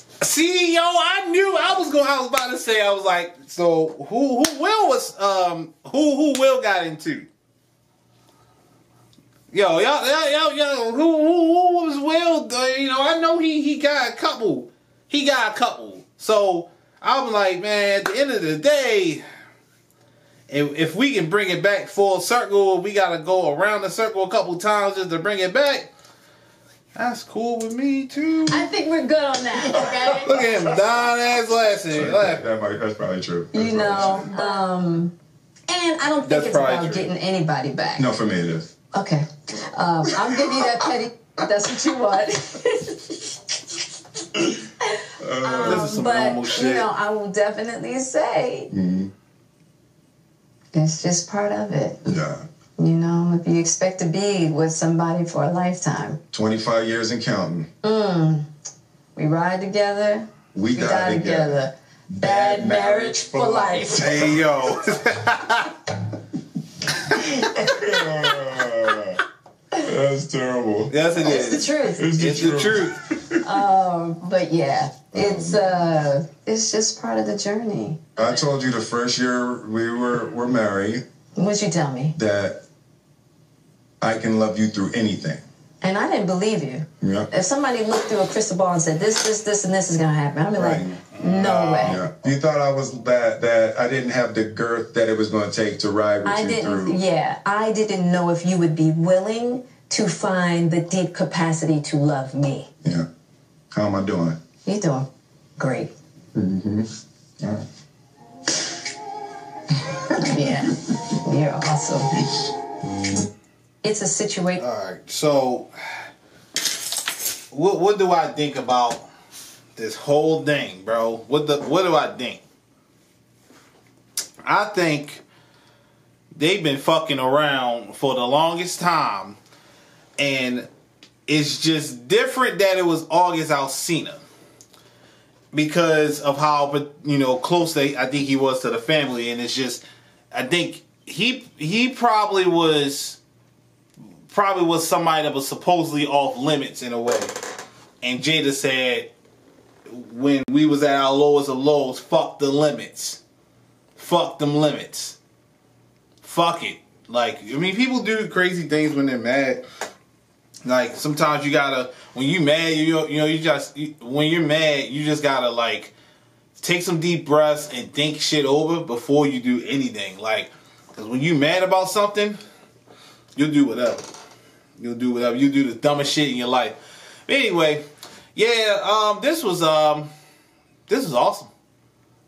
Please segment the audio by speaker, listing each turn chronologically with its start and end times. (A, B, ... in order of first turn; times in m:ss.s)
0:00.2-0:07.3 A
0:09.5-0:19.2 A
0:20.5-0:25.9 A
0:27.0-0:28.7 A
0:28.5-0:30.7 B
0:30.2-0:32.4 A
0:31.9-0:34.3 C
0:33.5-0:35.1 B
0:35.7-0:38.1 B
0:36.2-0:37.1 A
0:38.0-0:38.7 C
0:38.9-0:43.3 B
0:40.2-0:40.6 C
0:44.8-0:48.7 B
0:45.2-0:46.0 C
0:45.6-0:46.9 A
0:48.7-0:49.1 C
0:50.7-0:52.1 B
0:52.0-0:52.4 C
0:52.8-0:56.2 B
0:56.3-0:57.7 C
0:57.8-0:58.4 B
0:59.2-1:04.3 B
1:00.5-1:04.6 C
1:04.0-1:05.7 A
1:07.1-1:09.2 C
1:07.1-1:07.9 B
1:09.8-1:10.9 C
1:10.9-1:13.0 A
1:11.1-1:12.1 B
1:11.9-1:13.4 C
1:13.4-1:18.3 B
1:15.1-1:15.8 C
1:18.2-1:21.0 C
1:21.4-1:22.1 B
1:22.1-1:22.6 C
1:24.0-1:25.4 C
1:25.8-1:32.0 B
1:27.0-1:27.3 C
1:30.5-1:31.0 C
1:31.1-1:32.0 A
1:31.8-1:37.0 C
1:36.2-1:42.7 B
1:43.7-1:44.4 C
1:44.6-1:45.9 B
1:46.3-1:46.8 C
1:50.2-1:52.3 B
1:53.8-1:54.6 B
1:54.6-1:55.7 A
1:57.5-1:59.1 A
1:59.8-2:02.4 A
2:04.4-2:05.2 A
2:06.3-2:09.4 A
2:10.2-2:10.7 A
2:11.3-2:14.2 A
2:15.5-2:23.2 A
2:24.3-2:27.3 A
2:28.0-2:29.1 A
2:29.9-2:33.2 A
2:34.0-2:35.2 A
2:36.2-2:39.6 A
2:40.6-2:45.9 A
2:46.6-2:52.4 A
2:53.4-2:54.1 A
2:54.8-3:00.1 A
3:00.9-3:01.5 A